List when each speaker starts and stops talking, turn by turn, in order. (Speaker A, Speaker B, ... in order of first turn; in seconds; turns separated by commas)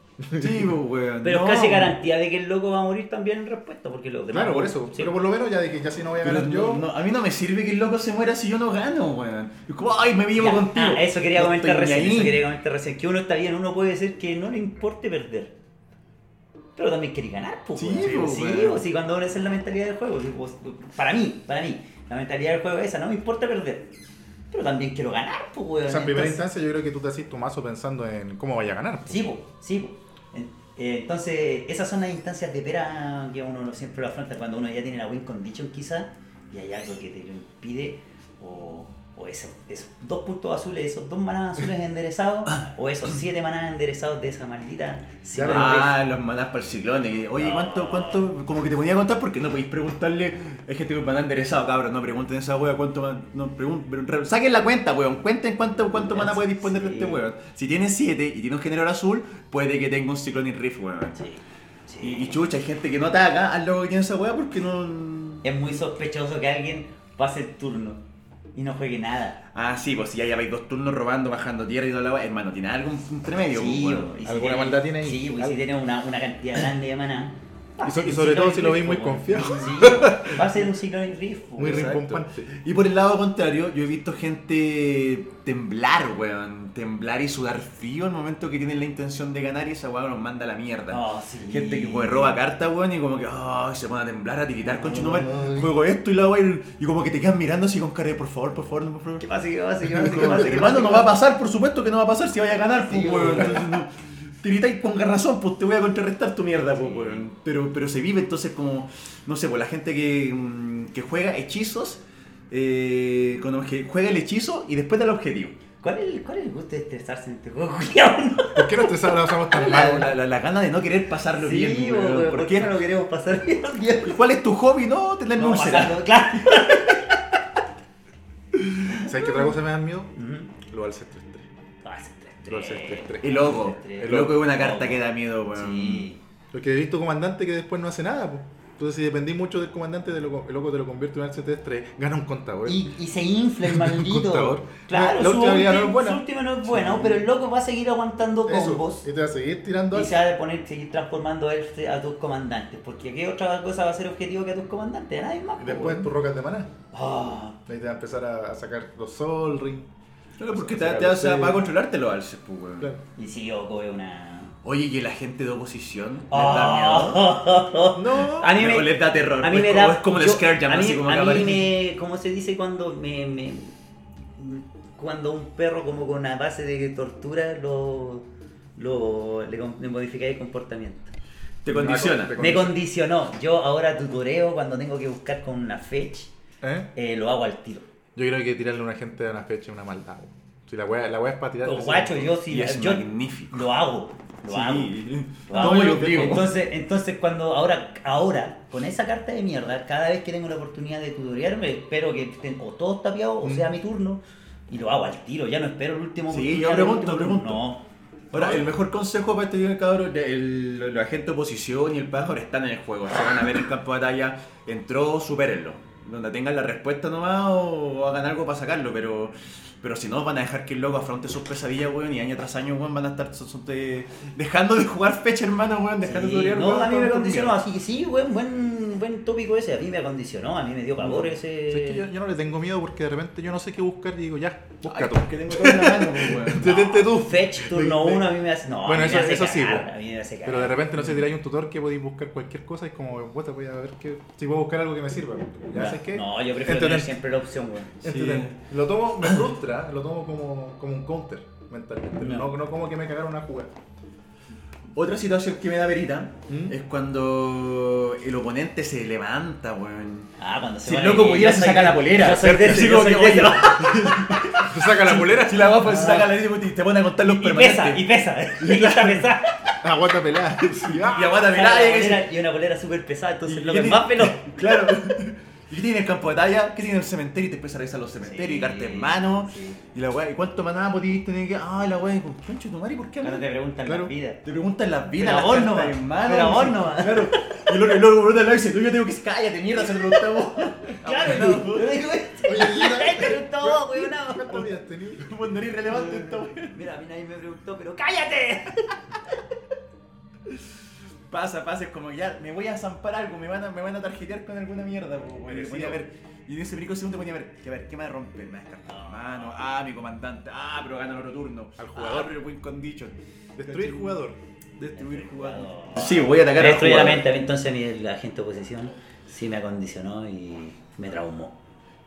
Speaker A: 0.2-0.8, Speaker B: 0.4-1.9, Speaker C: 1.2-5.1, Speaker A: 4.3-6.8, Speaker B: 6.2-12.4, Speaker C: 10.3-15.5, Speaker C: 16.8-23.9, Speaker B: 17.8-18.8, Speaker A: 18.0-18.3, Speaker C: 24.5-26.4, Speaker A: 25.9-29.3, Speaker C: 29.1-46.0, Speaker A: 45.3-45.9, Speaker B: 45.4-61.2, Speaker C: 47.4-48.2, Speaker C: 56.0-57.2, Speaker C: 61.1-62.4, Speaker B: 62.0-65.4, Speaker C: 65.4-68.0, Speaker C: 68.5-69.4, Speaker B: 69.5-74.1, Speaker C: 73.5-82.0, Speaker A: 74.2-75.6, Speaker A: 77.8-80.4, Speaker A: 81.6-82.5, Speaker B: 81.6-99.2, Speaker C: 90.9-92.4, Speaker C: 94.7-95.7, Speaker C: 99.2-101.1, Speaker B: 100.0-115.5, Speaker C: 102.9-103.7, Speaker C: 106.8-107.2, Speaker C: 115.8-118.9, Speaker A: 118.5-120.1, Speaker B: 119.5-122.8, Speaker C: 119.5-120.0, Speaker C: 121.3-124.2, Speaker B: 124.0-126.8, Speaker C: 125.3-127.2, Speaker A: 129.0-131.5, Speaker C: 130.2-130.5, Speaker C: 131.8-136.2, Speaker A: 132.5-134.4, Speaker B: 133.2-136.1, Speaker A: 136.5-142.9, Speaker C: 142.7-149.1, Speaker A: 143.6-147.2, Speaker A: 148.4-150.2, Speaker C: 149.9-156.1, Speaker A: 155.6-156.7, Speaker C: 156.9-157.6, Speaker A: 157.7-159.9, Speaker B: 160.4-162.9, Speaker A: 160.5-161.7, Speaker C: 163.2-164.5, Speaker B: 164.6-167.3, Speaker C: 166.3-173.7, Speaker A: 168.0-168.5, Speaker B: 168.4-171.7, Speaker C: 174.3-181.1, Speaker B: 181.6-182.4, Speaker A: 181.7-182.8, Speaker C: 182.4-186.3, Speaker A: 186.6-186.9, Speaker C: 186.9-187.9, Speaker A: 188.2-192.3, Speaker C: 191.6-194.9, Speaker B: 192.5-193.7, Speaker B: 194.5-196.5, Speaker C: 195.5-207.8, Speaker A: 195.6-196.0, Speaker A: 203.4-203.7, Speaker B: 206.3-207.6, Speaker B: 208.3-227.6, Speaker A: 208.3-208.6, Speaker C: 226.0-232.1, Speaker A: 231.0-238.3, Speaker B: 234.8-236.8, Speaker C: 236.6-240.8, Speaker A: 238.8-239.9, Speaker A: 240.4-247.1, Speaker B: 241.0-241.2, Speaker C: 245.7-248.0, Speaker A: 248.0-253.7, Speaker B: 248.0-248.6, Speaker C: 252.2-252.5, Speaker B: 254.9-260.3, Speaker A: 256.5-256.8, Speaker C: 260.4-266.3, Speaker B: 260.8-269.3, Speaker A: 264.6-265.8, Speaker C: 267.2-269.7, Speaker A: 269.8-271.4, Speaker B: 270.7-272.3, Speaker C: 271.4-274.5, Speaker B: 273.4-283.4, Speaker C: 278.2-279.8, Speaker C: 283.2-284.4, Speaker A: 283.9-284.1, Speaker B: 284.4-292.0, Speaker C: 285.2-287.6, Speaker C: 290.0-290.2, Speaker C: 291.0-294.7, Speaker A: 292.4-295.3, Speaker B: 295.2-296.7, Speaker C: 296.0-299.4, Speaker B: 301.3-314.2, Speaker A: 305.4-306.0, Speaker C: 308.9-309.5, Speaker A: 311.8-312.3, Speaker A: 313.6-314.4, Speaker B: 314.8-317.2, Speaker C: 314.9-321.6